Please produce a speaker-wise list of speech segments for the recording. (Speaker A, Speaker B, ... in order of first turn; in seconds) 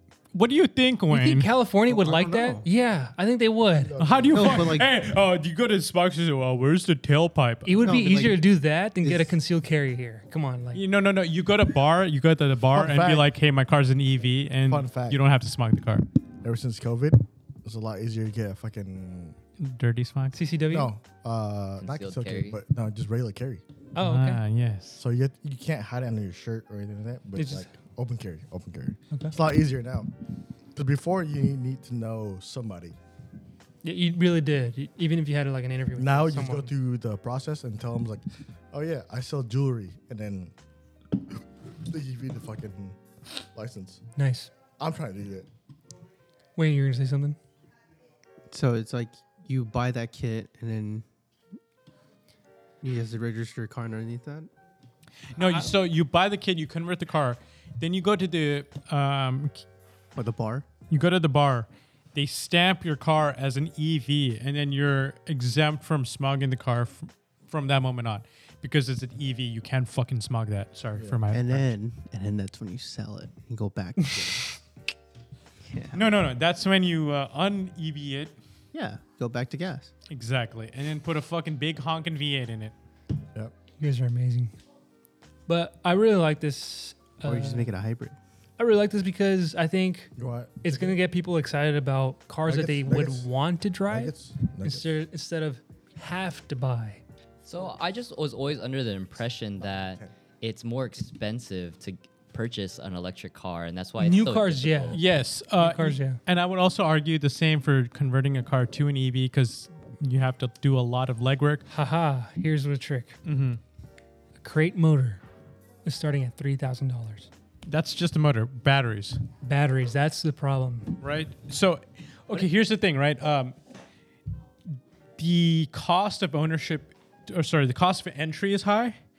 Speaker A: 0.3-1.5, 4.0-7.9, 10.7-16.1, 19.6-20.4, 24.0-25.0, 55.3-59.6, 60.9-71.7, 75.9-78.3, 80.1-82.7, 104.9-111.7, 113.2-113.6, 117.7-119.2, 121.0-123.5, 125.2-129.0
Speaker B: 1.1-4.0, 7.6-10.8, 20.3-20.9, 23.9-24.4, 27.4-27.7, 33.8-36.7, 44.2-44.5, 46.5-47.4, 74.0-74.4, 83.8-84.5, 85.5-87.7, 88.6-97.0, 104.0-105.0, 105.6-106.2, 111.7-113.2, 114.4-115.2, 115.8-117.3, 119.4-121.0
Speaker C: 1.9-2.7, 4.3-4.9, 7.8-8.4, 9.0-9.3, 48.5-51.0, 52.8-54.5, 60.1-60.7, 71.3-74.4, 75.7-76.0, 78.7-79.9, 87.2-88.2
Speaker D: 3.8-4.8, 12.7-13.3, 14.7-15.2, 16.4-19.4, 20.7-23.6, 25.0-30.1, 30.7-33.0, 36.0-40.5, 41.3-44.0, 44.8-45.5, 90.2-91.0, 92.4-93.3, 93.9-94.9, 99.6-100.1
Speaker E: 21.8-22.6, 97.4-105.0